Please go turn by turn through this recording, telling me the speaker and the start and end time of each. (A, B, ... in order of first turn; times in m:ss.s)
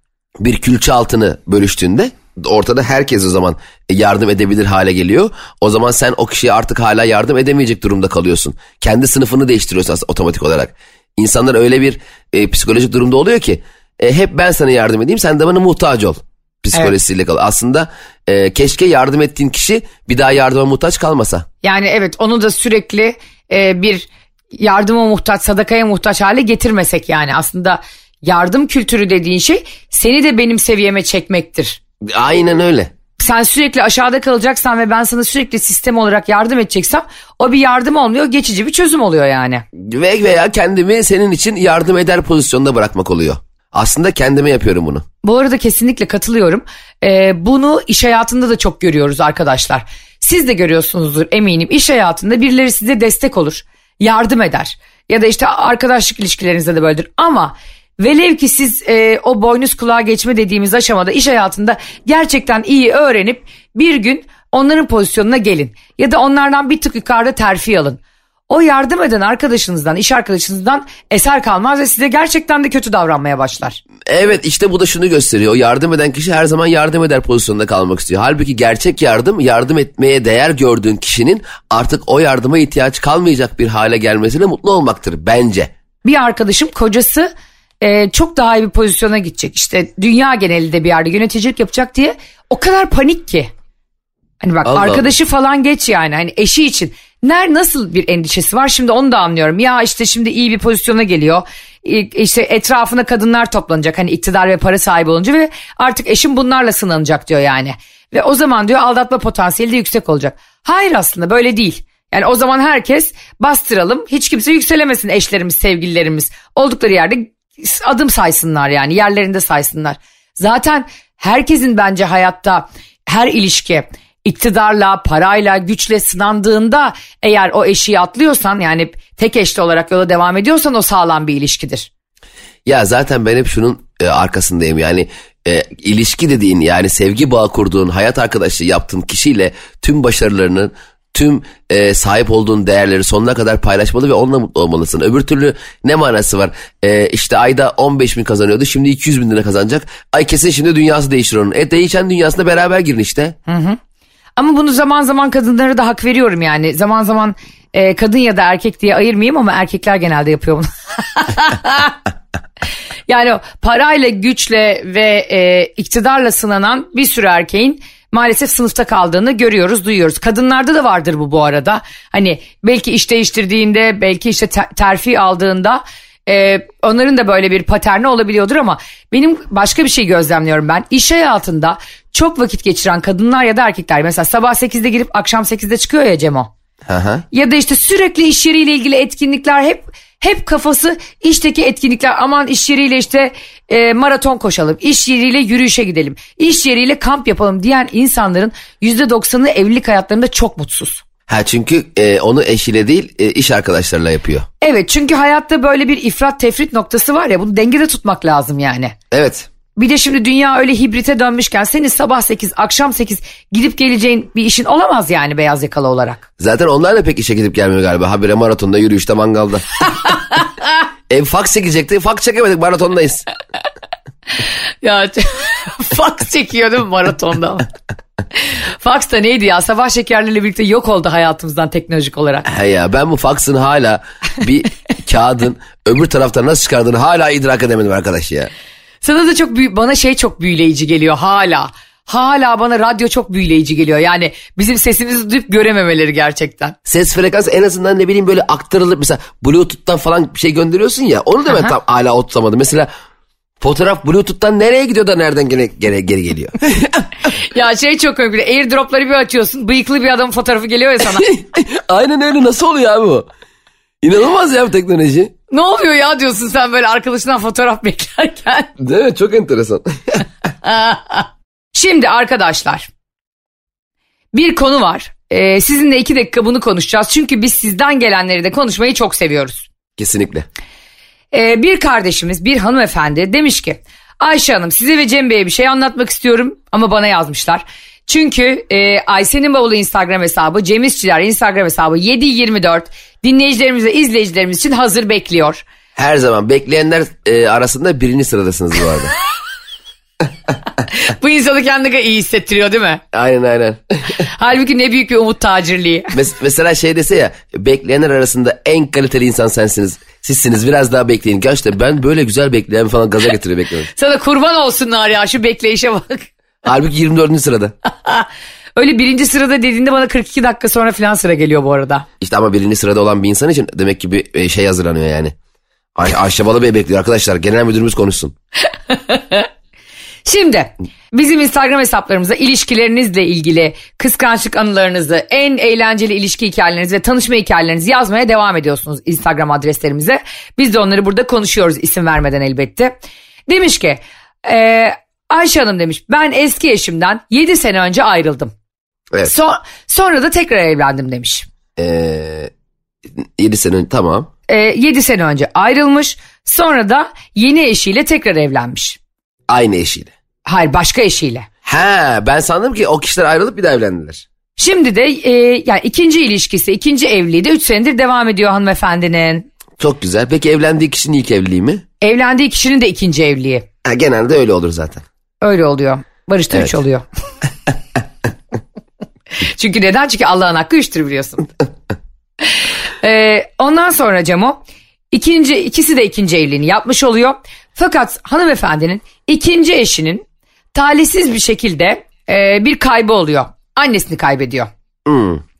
0:00.4-0:21.4 A
0:21.6-0:31.8 B
0:32.0-0:32.9 A
0:33.2-0:39.6 B
0:39.7-0:45.0 A
0:45.2-1:13.8 B
1:14.1-1:25.7 A
1:26.0-1:27.3 B
1:27.8-1:33.5 B
1:34.4-2:11.9 B
1:34.6-1:35.1 A
2:12.6-2:33.3 A
2:33.5-2:33.8 B
2:34.4-2:42.0 B
2:43.1-3:06.5 B
3:06.8-3:07.2 A
3:07.3-3:21.0 B
3:21.3-3:24.4 A
3:24.6-3:28.9 B
3:29.1-3:29.5 A
3:29.8-3:36.2 B
3:36.4-3:39.6 A
3:40.0-3:40.5 B
3:41.1-3:43.2 A
3:44.8-3:47.7 B
3:48.4-3:52.4 B
3:52.4-3:58.5 A
3:59.0-4:06.8 B
4:06.8-4:12.9 A
4:13.6-4:17.1 A
4:17.3-4:21.3 B
4:21.1-4:23.3 A
4:24.0-4:25.3 A
4:25.5-4:28.7 B
4:28.8-4:30.2 A
4:30.6-4:32.9 B
4:34.3-4:39.7 B
4:40.0-4:40.5 A
4:41.3-4:55.6 B
4:56.0-4:59.1 A
5:00.9-5:03.0 B
5:03.1-5:04.2 A
5:04.2-5:06.1 B
5:06.1-5:13.9 A
5:14.0-5:16.3 B
5:16.6-5:17.7 A
5:18.0-5:22.0 B
5:22.2-5:25.3 A
5:25.9-5:28.3 A
5:28.9-5:29.5 B
5:30.2-5:43.0 B
5:43.5-5:48.5 B
5:49.2-5:51.4 B
5:51.8-5:52.5 A
5:53.2-5:54.3 A
5:54.5-5:59.0 B
5:59.5-6:00.1 A
6:00.4-6:01.5 B
6:01.6-6:04.2 A
6:04.6-6:09.5 B
6:09.8-6:11.8 A
6:12.0-6:13.6 B
6:13.8-6:15.0 A
6:15.4-6:17.0 B
6:19.4-6:21.5 B
6:22.5-6:24.6 B
6:25.1-6:34.7 B
6:35.0-6:35.4 A